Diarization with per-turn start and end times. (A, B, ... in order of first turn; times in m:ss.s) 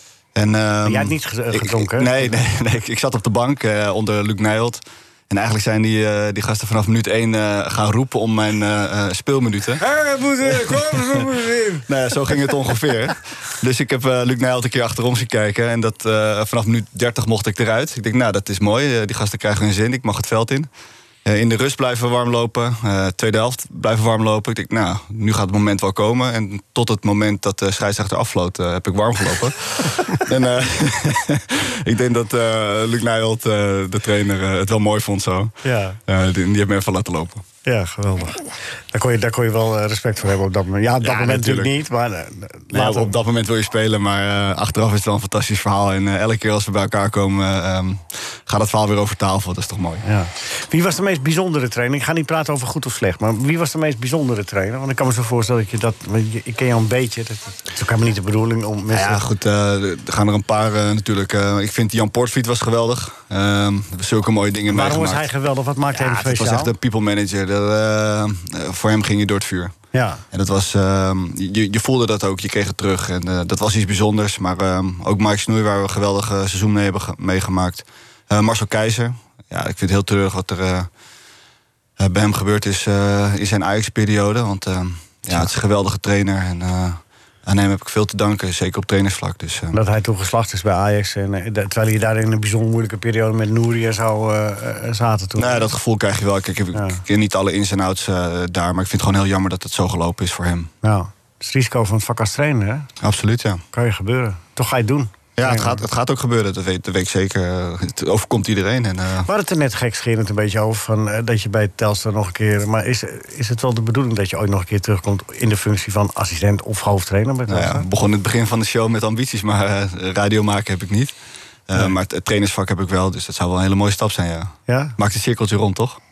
0:00.4-0:09.8 A
0:00.8-0:02.4 B
0:09.8-0:11.9 B
0:10.5-0:11.2 A
0:11.9-0:20.7 A
0:21.2-0:35.6 A
0:35.6-0:36.0 B
0:36.1-0:37.4 A
0:37.6-0:43.2 B
0:41.0-0:41.7 A
0:42.7-0:50.0 A
0:50.0-0:59.2 B
0:58.9-1:05.3 A
1:04.7-1:06.7 B
1:05.9-1:09.8 A
1:09.9-1:10.2 B
1:10.3-1:20.9 A
1:22.0-1:29.8 A
1:29.7-1:35.7 B
1:35.4-1:40.7 A
1:36.8-1:37.0 B
1:40.8-1:42.9 B
1:43.0-1:43.6 A
1:43.7-1:45.8 B
1:45.4-1:49.3 A
1:49.3-1:57.9 B
1:57.5-2:01.1 A
2:01.7-2:06.0 A
2:04.7-2:05.0 B